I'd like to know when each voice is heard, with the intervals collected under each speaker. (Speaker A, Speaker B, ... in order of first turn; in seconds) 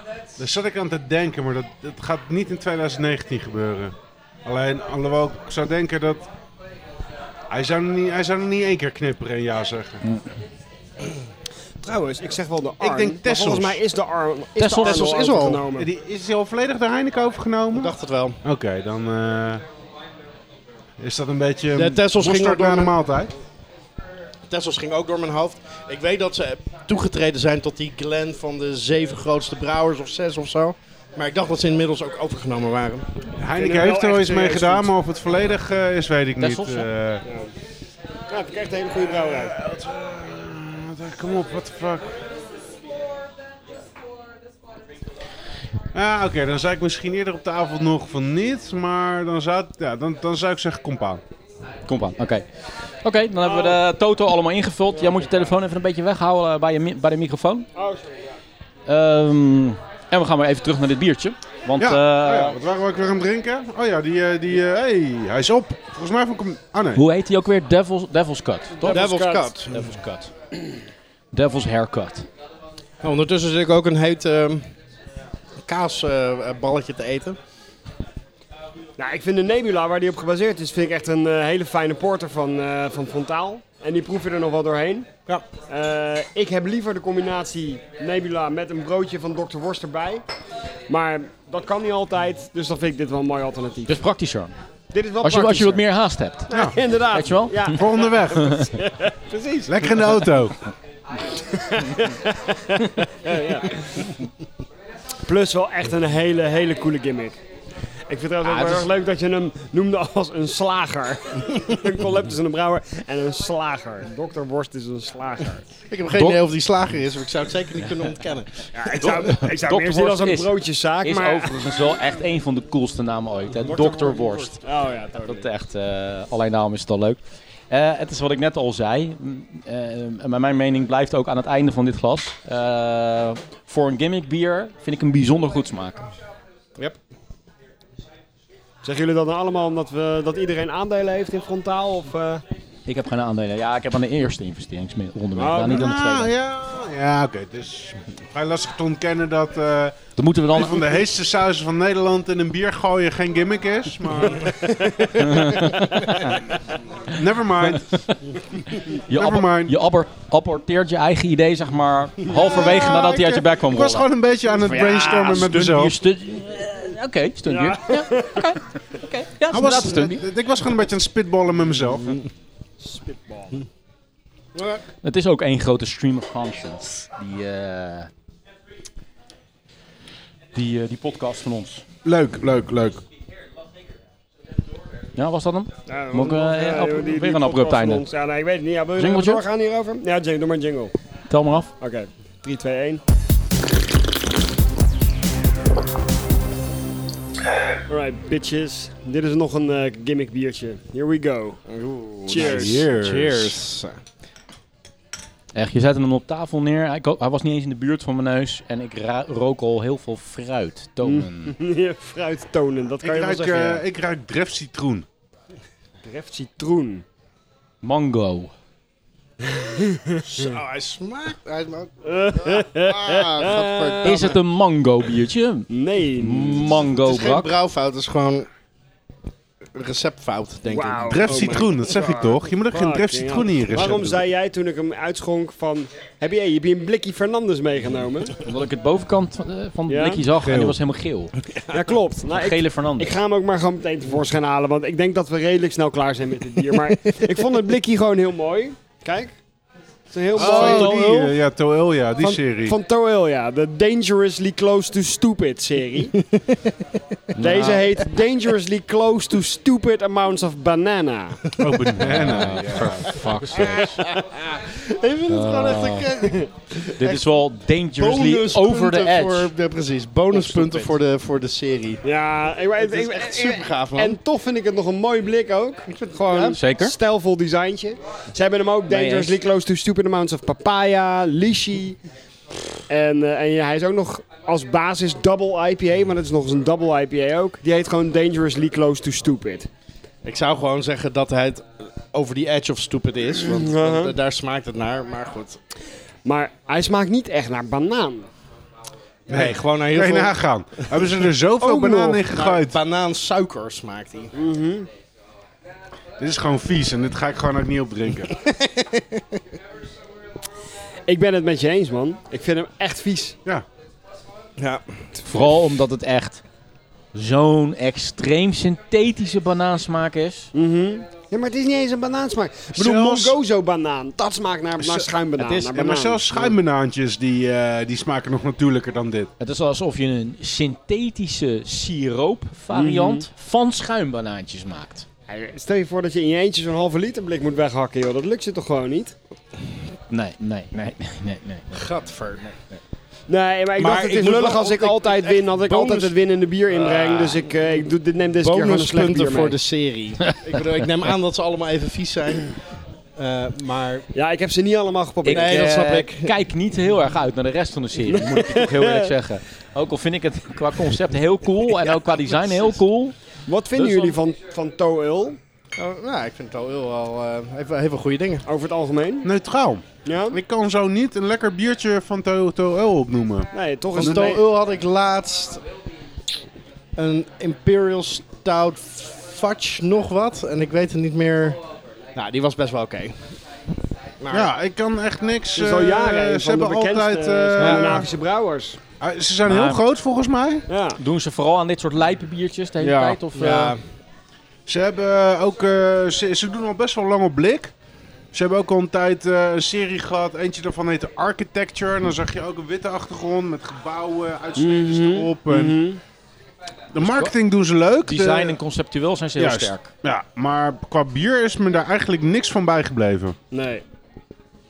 Speaker A: 0.4-3.9, 4.4-6.3, 7.5-10.0, 12.8-13.8, 15.7-17.9, 18.4-19.6, 21.0-23.3, 33.4-37.2, 39.0-42.2, 45.9-51.2, 61.8-67.0, 96.5-96.8, 97.7-98.7, 99.7-100.5, 145.7-150.0, 150.5-154.5, 157.1-158.0, 159.1-159.8, 162.3-165.9, 169.5-172.2, 182.0-183.0, 202.3-203.4, 213.0-215.1, 231.1-234.2, 240.4-240.8, 250.3-252.8, 261.6-263.2, 299.3-302.8, 306.2-308.4, 322.7-323.4, 324.8-329.3, 369.2-374.4, 384.3-388.1, 389.0-390.6, 394.7-397.7, 398.3-405.8, 406.9-408.6, 409.4-413.4
Speaker B: 11.8-15.9, 33.5-34.9, 37.2-37.5, 38.3-39.5, 53.4-53.8, 54.9-55.5, 57.7-58.2, 68.8-69.5, 79.0-85.1, 85.7-90.2, 90.9-94.0, 94.9-95.8, 96.5-100.1, 101.3-104.1, 105.2-107.4, 108.1-115.7, 118.7-121.6, 123.6-125.5, 138.8-142.4, 145.3-145.9, 154.2-156.2, 167.5-168.4, 172.8-173.7, 185.9-190.9, 191.8-193.0, 197.9-201.6, 202.3-202.8, 211.0-213.8, 216.0-217.0, 219.6-220.5, 222.1-224.1, 225.7-226.7, 230.7-238.4, 239.9-240.2, 241.7-249.3, 250.1-251.3, 252.2-256.1, 257.4-261.5, 263.6-264.1, 272.0-282.0, 282.9-289.7, 293.4-294.1, 296.2-298.3, 301.6-302.6, 304.3-304.9, 311.1-313.4, 320.5-326.6, 332.7-333.2, 335.3-339.1, 343.3-349.6, 354.1-355.8, 358.0-359.1, 363.5-365.4, 368.4-369.2, 370.0-370.4, 373.5-374.4, 385.5-388.8, 390.7-391.0, 404.6-406.0, 413.5-413.8
Speaker C: 14.6-15.1, 36.4-36.9, 51.9-52.4, 53.0-57.7, 58.9-62.6, 66.9-70.3, 71.3-72.3, 93.9-94.5, 95.2-97.8, 98.4-98.7, 108.4-108.9, 116.1-116.4, 119.0-124.6, 125.2-127.2, 127.7-136.1, 142.8-146.3, 150.2-150.9, 155.1-156.3, 157.7-158.4, 158.9-170.2, 175.0-178.1, 180.5-181.8, 185.2-188.0, 189.0-189.4, 191.3-191.7, 202.9-203.6, 205.5-211.5, 217.8-218.5, 224.0-225.7, 226.2-227.5, 238.4-241.3, 242.2-243.1, 250.3-250.8, 257.3-257.9, 262.0-263.9, 265.3-266.1, 267.0-269.5, 270.3-270.9, 276.5-276.9, 278.9-279.4, 315.3-316.4, 317.1-320.5, 329.4-335.1, 340.1-341.9, 350.2-350.6, 355.2-363.2, 363.7-364.2, 389.4-389.8, 391.0-393.7, 407.0-407.3, 408.1-409.9
Speaker D: 14.7-15.7, 17.7-18.4, 21.7-22.9, 24.5-33.1, 68.8-69.8, 73.0-74.7, 75.7-77.4, 115.9-118.5, 174.5-174.8, 201.7-204.0, 220.3-224.4, 226.8-228.5, 229.7-231.6, 263.6-267.4, 267.9-272.0, 272.8-274.2, 275.9-276.6, 290.2-295.6, 299.3-300.4, 302.5-304.3, 308.4-309.4, 314.6-314.8, 341.7-342.5, 343.8-346.1, 346.8-347.4, 348.4-352.6, 353.2-354.1, 355.2-356.3, 365.8-368.4, 373.9-375.6, 376.9-381.6, 382.1-383.2, 384.2-384.5, 387.6-388.1, 392.8-393.8